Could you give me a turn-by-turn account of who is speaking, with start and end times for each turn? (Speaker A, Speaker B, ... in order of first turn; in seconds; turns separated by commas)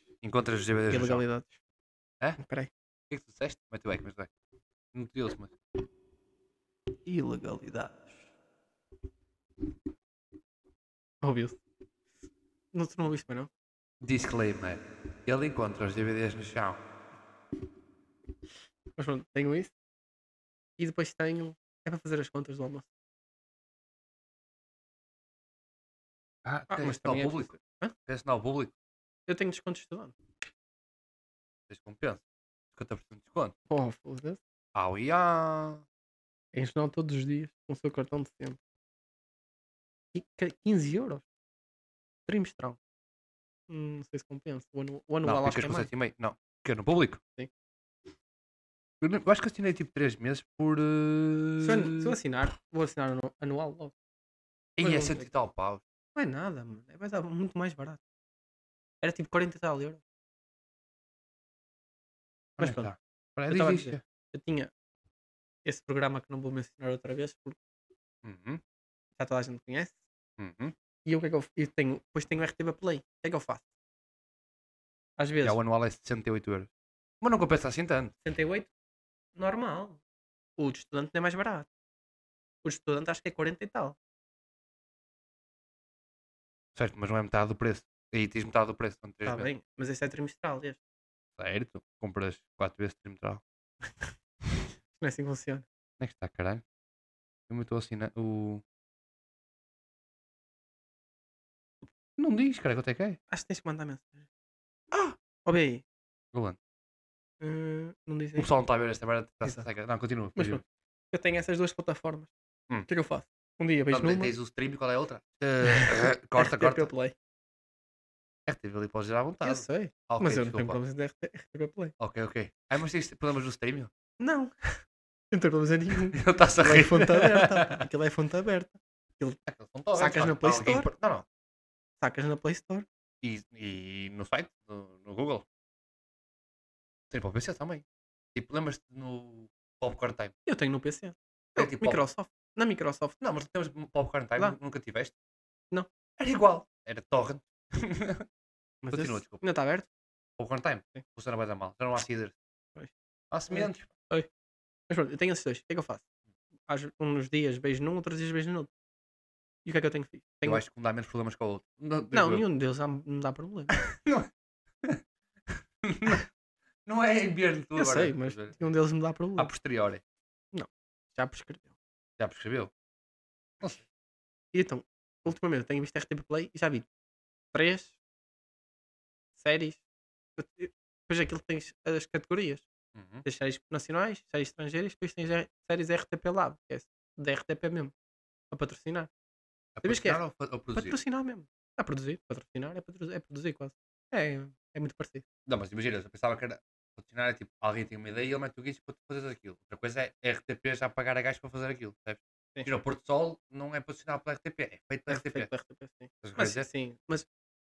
Speaker A: 0.2-1.2, Speaker B: 0.9-1.5, Speaker B: 2.4-2.7, Speaker A: 3.1-4.3, Speaker A: 4.9-5.5, Speaker B: 7.0-8.2, Speaker B: 11.2-11.6, Speaker B: 12.7-13.5, Speaker A: 14.0-16.8, Speaker B: 19.0-19.7, Speaker B: 20.8-22.9, Speaker A: 26.4-27.5, Speaker B: 26.7-27.9, Speaker A: 28.1-28.7, Speaker B: 29.3-30.1, Speaker A: 31.7-32.2, Speaker A: 32.7-33.5, Speaker B: 33.7-34.4, Speaker A: 34.7-35.8, Speaker B: 36.5-38.6, Speaker B: 40.1-41.2, Speaker B: 42.3-42.8, Speaker B: 43.7-45.9, Speaker A: 45.2-47.2, Speaker A: 49.0-52.1, Speaker B: 51.6-53.9, Speaker B: 54.8-55.3, Speaker A: 54.8-55.8, Speaker B: 56.1-58.0, Speaker B: 59.0-60.0, Speaker B: 62.6-62.9, Speaker A: 62.6-64.0, Speaker B: 63.5-64.7, Speaker B: 65.6-67.6, Speaker A: 68.2-68.6, Speaker B: 69.2-70.0, Speaker A: 70.4-70.7, Speaker B: 71.0-73.7, Speaker B: 75.2-75.6, Speaker A: 75.4-76.7, Speaker A: 77.2-78.1, Speaker B: 78.2-78.7, Speaker B: 79.4-80.0, Speaker B: 80.6-81.7, Speaker B: 82.6-84.0, Speaker A: 86.7-89.5, Speaker B: 89.2-90.8, Speaker A: 91.4-93.4, Speaker B: 95.0-95.6, Speaker A: 96.0-96.6, Speaker A: 97.5-98.6, Speaker A: 102.2-103.2, Speaker B: 103.3-104.2, Speaker B: 104.9-105.8, Speaker A: 106.3-106.6, Speaker B: 107.4-108.5, Speaker A: 108.4-110.6, Speaker B: 110.3-112.3, Speaker B: 112.9-114.3, Speaker A: 113.9-116.9, Speaker B: 115.6-117.1, Speaker A: 118.5-120.8, Speaker B: 119.4-121.9, Speaker A: 122.0-123.9, Speaker B: 124.2-124.8, Speaker B: 125.3-129.4, Speaker A: 126.1-127.8, Speaker A: 129.5-131.2, Speaker B: 129.9-130.9, Speaker B: 132.0-132.9, Speaker A: 133.2-135.4, Speaker A: 137.1-140.3, Speaker B: 140.4-143.2, Speaker A: 141.6-142.0, Speaker A: 143.2-145.1, Speaker A: 146.2-148.2, Speaker B: 148.8-149.9, Speaker A: 148.9-149.4, Speaker A: 150.4-152.3, Speaker A: 153.3-153.9, Speaker B: 153.5-154.3, Speaker B: 154.9-156.0, Speaker B: 156.7-158.7, Speaker B: 159.6-160.6, Speaker A: 160.4-162.5, Speaker B: 162.1-163.8, Speaker A: 163.7-164.3, Speaker A: 165.8-166.2, Speaker A: 166.9-168.6, Speaker B: 167.8-169.5, Speaker A: 169.4-170.0, Speaker B: 170.5-171.7, Speaker A: 172.2-172.7, Speaker B: 174.5-176.9, Speaker B: 177.5-177.9, Speaker B: 179.4-179.8, Speaker B: 180.4-182.7, Speaker A: 182.9-183.2, Speaker B: 183.2-187.9, Speaker B: 188.5-189.1, Speaker A: 189.8-191.0, Speaker B: 189.8-190.2, Speaker B: 190.7-195.2, Speaker A: 195.5-205.5, Speaker B: 205.1-207.3, Speaker A: 206.2-206.7